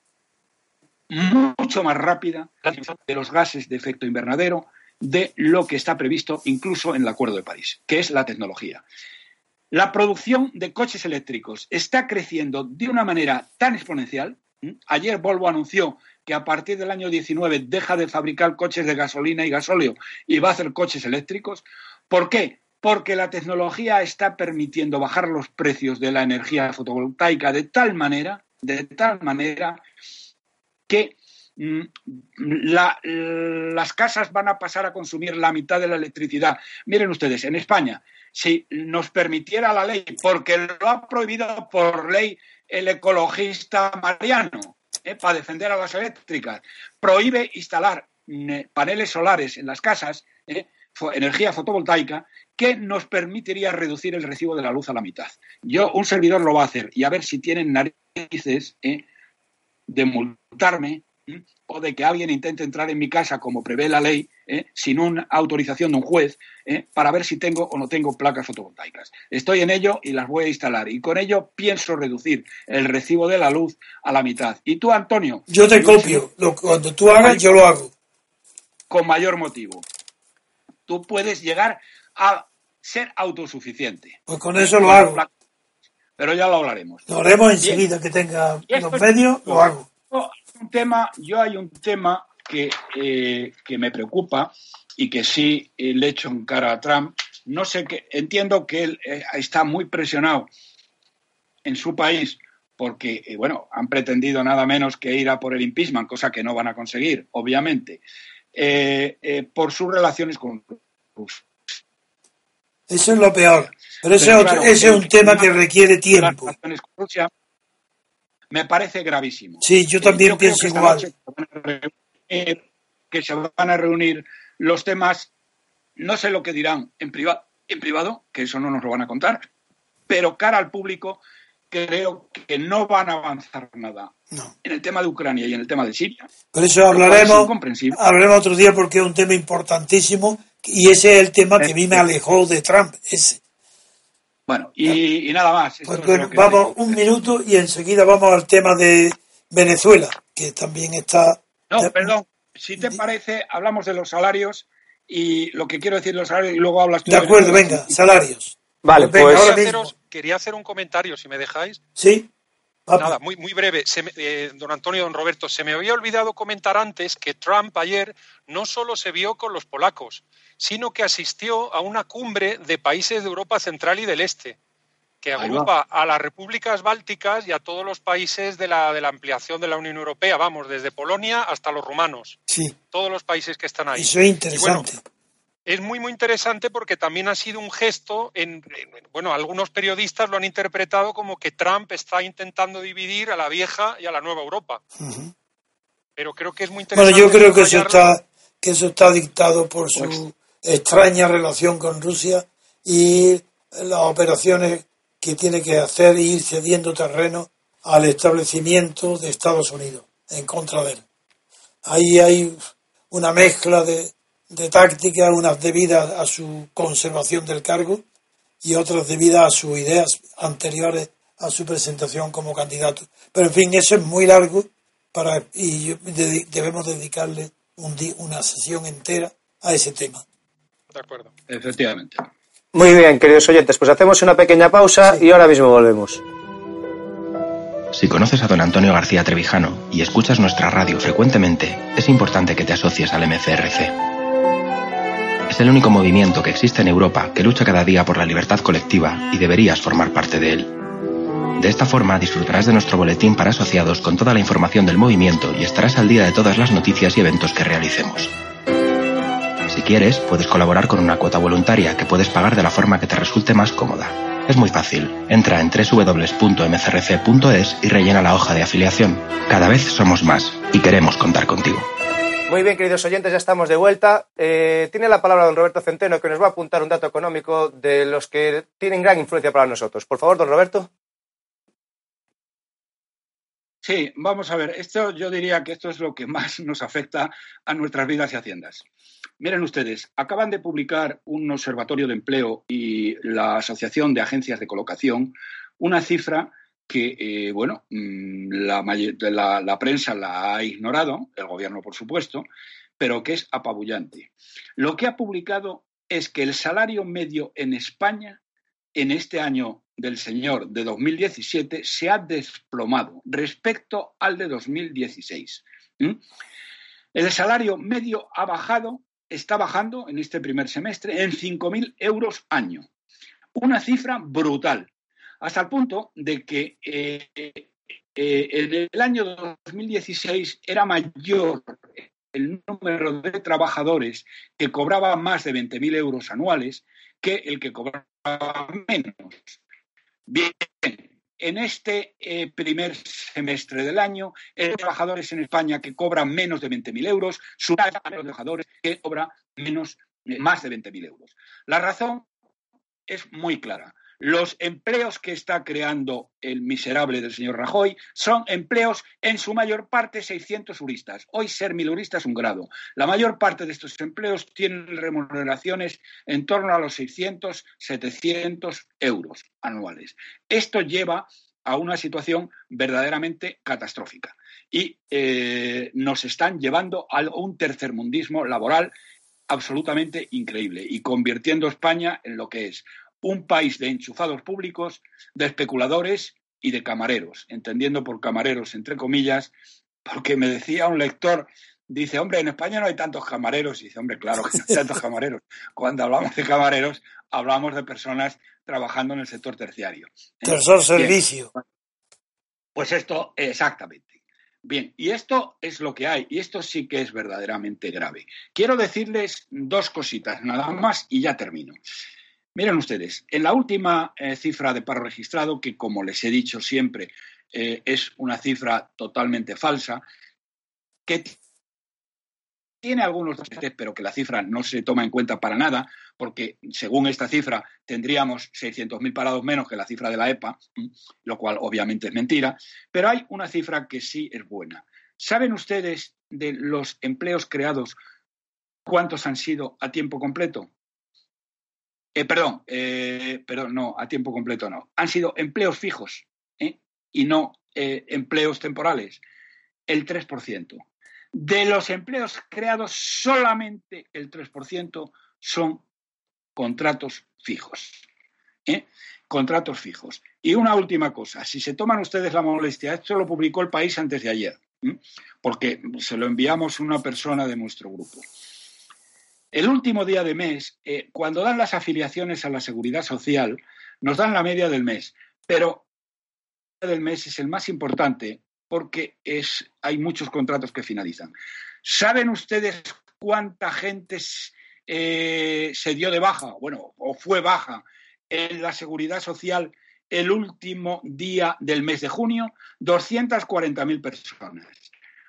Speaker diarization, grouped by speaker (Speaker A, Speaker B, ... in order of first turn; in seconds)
Speaker A: 1.1-8.8, 9.7-29.8, 30.9-59.0, 59.9-76.2, 77.2-77.5, 78.9-79.8, 80.9-85.3, 86.2-87.1, 88.7-100.5, 101.6-108.0, 108.5-111.8, 114.2-115.5, 116.1-117.3, 118.5-125.3, 126.0-129.5, 130.1-134.1, 134.6-136.3, 136.9-138.0, 141.6-142.0, 144.5-147.0, 151.7-158.0, 175.4-175.7, 231.5-232.2, 283.8-288.8, 289.4-302.4, 303.0-308.4, 308.9-316.2, 317.1-322.9, 323.6-324.9, 325.4-339.6, 340.3-352.3, 353.1-378.9, 379.5-389.5, 390.1-401.6, 402.7-411.8, 412.5-420.0, 421.1-421.4, 422.8-438.0, 438.9-440.7, 442.1-449.2, 449.9-455.8, 456.6-458.0, 458.6-468.2, 469.5-475.9, 476.8-481.3, 481.8-494.9
Speaker B: 75.5-77.9, 84.3-85.2, 87.1-89.9, 112.9-116.5, 119.6-121.1, 136.5-143.4, 145.8-152.1, 157.1-159.9, 162.0-162.3, 162.9-163.2, 182.5-182.7, 183.9-185.0, 195.0-195.3, 196.9-211.0, 211.8-218.0, 218.6-230.2, 400.4-401.5
Speaker C: 158.8-159.5, 232.7-236.2, 272.5-280.9
Speaker D: 159.2-161.8, 163.0-174.6, 175.2-184.9, 185.7-194.8, 196.2-198.1, 230.9-231.3
Speaker E: 237.9-243.9, 245.5-250.7, 251.6-258.3, 259.7-271.9